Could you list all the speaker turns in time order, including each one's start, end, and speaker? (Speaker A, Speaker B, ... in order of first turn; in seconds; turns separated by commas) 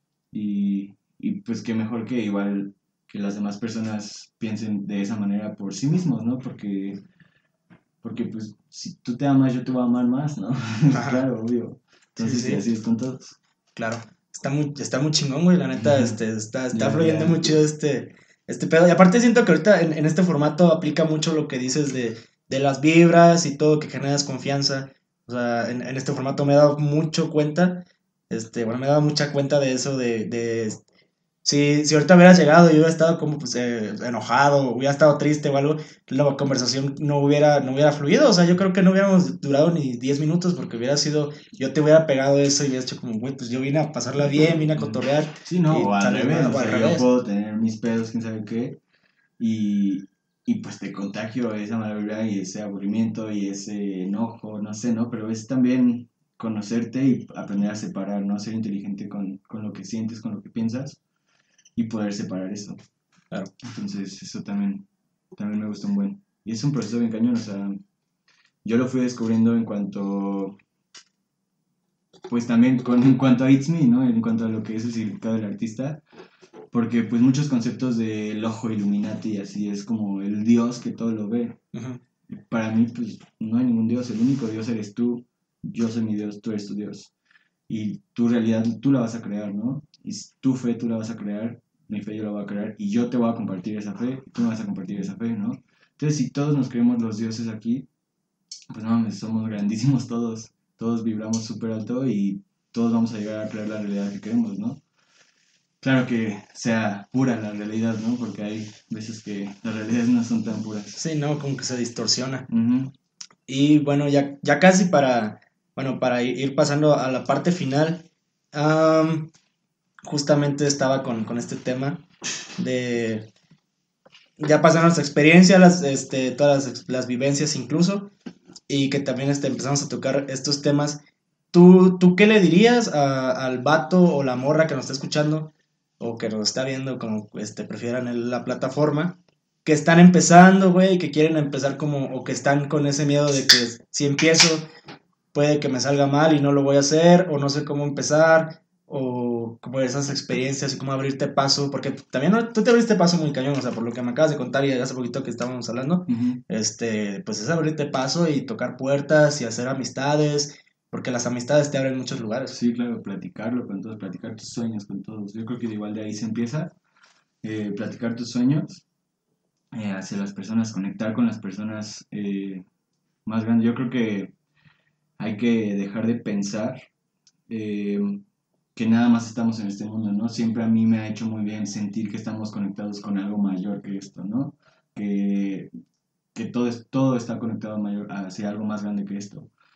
Speaker A: 0.3-7.0, Speaker A: 8.0-13.4, Speaker B: 10.9-11.2, Speaker B: 12.2-12.6, Speaker B: 13.7-30.8, Speaker A: 15.8-16.1, Speaker A: 16.7-17.6, Speaker B: 31.4-47.1, Speaker A: 44.8-48.8, Speaker A: 49.4-61.0, Speaker A: 61.8-62.8, Speaker A: 63.6-67.8, Speaker A: 68.6-70.6, Speaker A: 72.3-76.0, Speaker A: 76.7-81.6, Speaker B: 81.7-82.0, Speaker A: 82.3-87.1, Speaker A: 87.7-97.8, Speaker A: 98.7-104.8, Speaker A: 105.8-111.0, Speaker B: 111.0-112.5, Speaker A: 112.5-112.9, Speaker B: 113.5-119.3, Speaker B: 120.0-122.0, Speaker B: 122.6-123.3, Speaker B: 124.4-128.1, Speaker B: 128.7-144.7, Speaker B: 145.3-162.6, Speaker A: 156.1-156.4, Speaker A: 162.5-166.7, Speaker A: 167.4-168.8, Speaker A: 169.7-172.6, Speaker A: 173.2-174.3, Speaker A: 175.2-176.8, Speaker A: 177.5-178.2, Speaker A: 178.7-185.7, Speaker A: 186.3-189.5